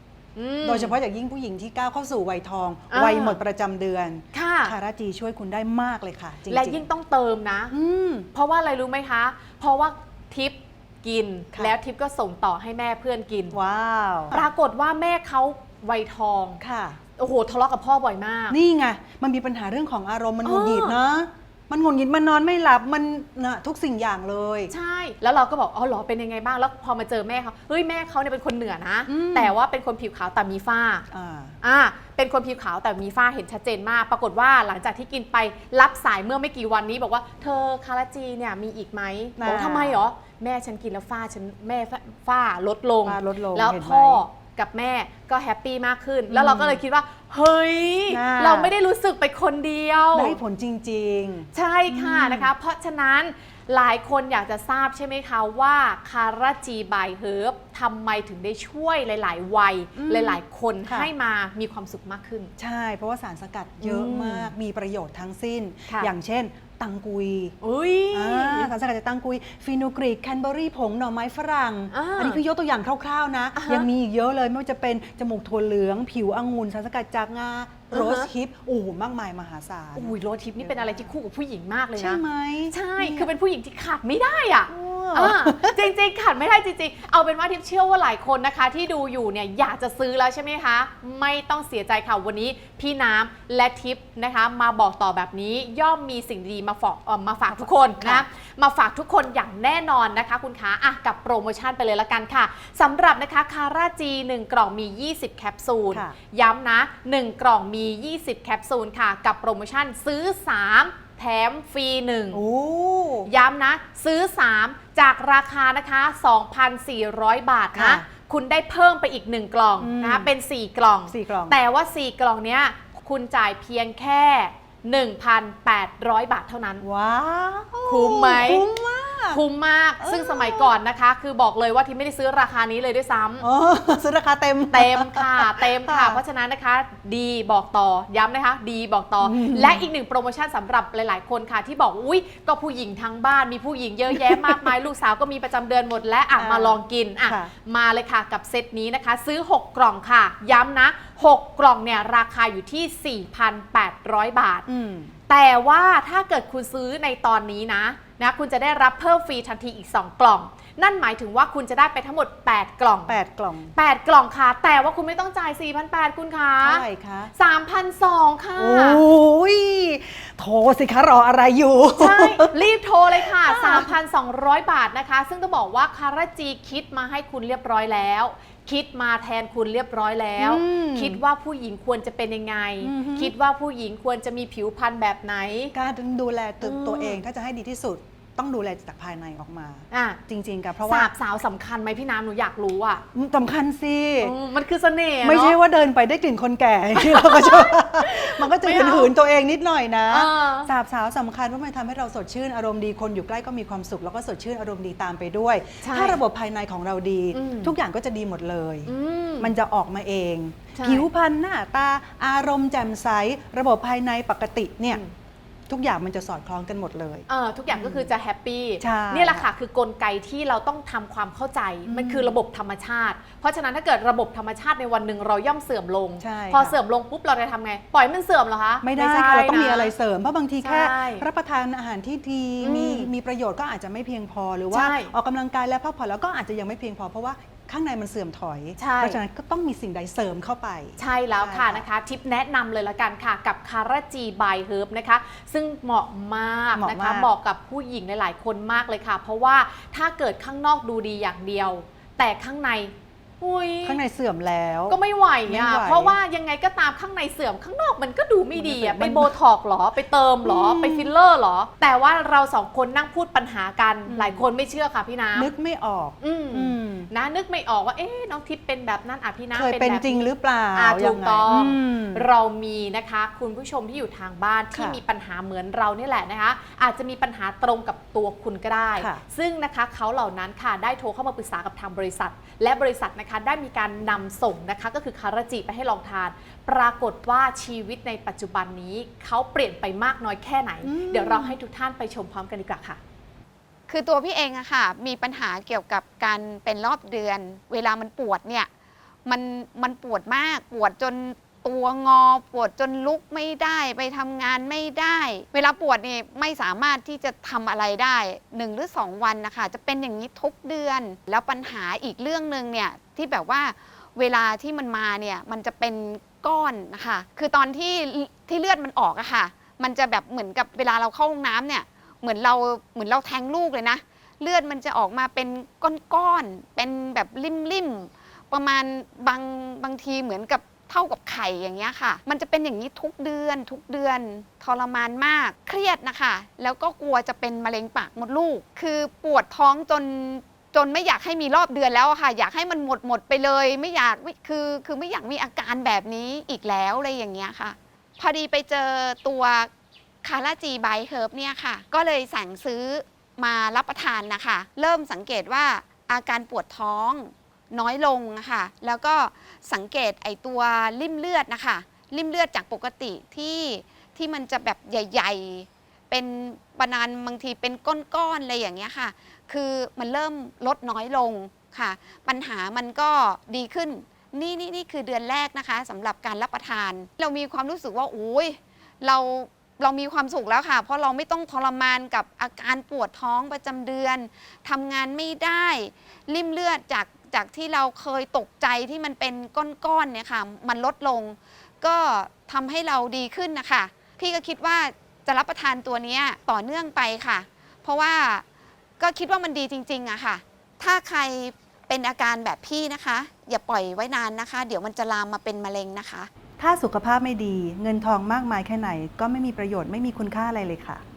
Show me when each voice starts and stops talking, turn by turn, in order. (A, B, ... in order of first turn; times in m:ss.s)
0:00.4-0:00.9 A
0:00.6-0:06.8 B
0:02.9-0:03.4 A
0:04.3-0:04.7 A
0:06.5-0:07.7 A
0:07.7-0:08.3 B
0:08.3-0:13.5 A
0:13.5-0:14.4 B
0:14.3-0:16.6 A
0:16.6-0:17.0 B
0:17.2-0:18.6 A
0:18.5-0:24.7 B
0:20.4-0:21.0 A
0:24.7-0:31.0 A
0:29.1-0:29.5 B
0:31.1-0:31.6 B
0:31.6-0:50.4 A
0:39.4-0:40.0 B
0:43.0-0:44.2 B
0:46.3-0:46.8 B
0:48.1-0:48.7 B
0:50.1-0:52.5 B
0:51.5-1:02.5 A
1:00.0-1:01.1 B
1:02.6-1:07.6 B
1:03.8-1:04.5 A
1:07.6-1:08.7 A
1:08.1-1:21.1 B
1:11.9-1:12.4 A
1:13.5-1:13.9 A
1:17.9-1:18.3 A
1:19.9-1:52.4 A
1:22.0-1:23.3 B
1:24.7-1:25.8 B
1:37.5-1:38.2 B
1:45.9-1:46.2 B
1:52.3-1:53.3 B
1:53.2-2:06.8 A
1:57.7-1:58.1 B
1:59.8-2:00.3 B
2:01.1-2:01.6 B
2:06.8-2:09.4 B
2:07.8-2:08.6 A
2:09.3-2:13.5 A
2:10.0-2:10.7 B
2:13.4-2:16.2 B
2:14.7-2:34.6 A
2:19.2-2:19.9 B
2:24.1-2:24.7 B
2:26.4-2:27.5 B
2:34.7-2:35.1 B
2:35.3-2:43.2 A
2:43.1-2:43.7 B
2:43.8-2:49.0 A
2:46.6-2:47.3 B
2:48.6-2:52.5 B
2:52.0-3:05.7 A
2:53.2-2:53.9 B
3:00.4-3:01.2 B
3:02.8-3:03.3 B
3:05.7-3:11.1 B
3:06.6-3:07.2 A
3:09.9-3:10.2 A
3:10.8-3:13.0 A
3:13.1-3:14.4 B
3:14.2-3:15.6 A
3:15.2-3:35.0 B
3:16.9-3:19.1 A
3:20.1-3:20.7 A
3:25.8-3:26.2 A
3:27.3-3:27.7 A
3:28.8-3:29.5 A
3:30.7-3:31.1 A
3:35.7-3:38.1 B
3:37.3-3:49.9 A
3:38.8-3:39.5 B
3:41.8-3:42.3 B
3:46.2-3:46.8 B
3:48.8-4:01.8 B
3:50.6-3:51.2 A
3:52.6-3:53.1 A
3:54.7-3:55.1 A
3:58.8-3:59.2 A
4:01.0-4:14.0 A
4:06.8-4:07.3 B
4:13.8-4:16.2 B
4:14.9-4:25.5 A
4:18.6-4:19.3 B
4:20.4-4:21.1 B
4:24.1-4:24.4 B
4:25.4-4:27.1 B
4:26.2-4:53.0 A
4:29.5-4:32.2 B
4:34.7-4:35.0 B
4:50.8-4:51.6 B
4:53.9-4:58.7 C
4:59.2-5:49.7 C
5:50.2-6:38.4 C
6:39.0-6:46.3 C
6:46.6-6:51.0 B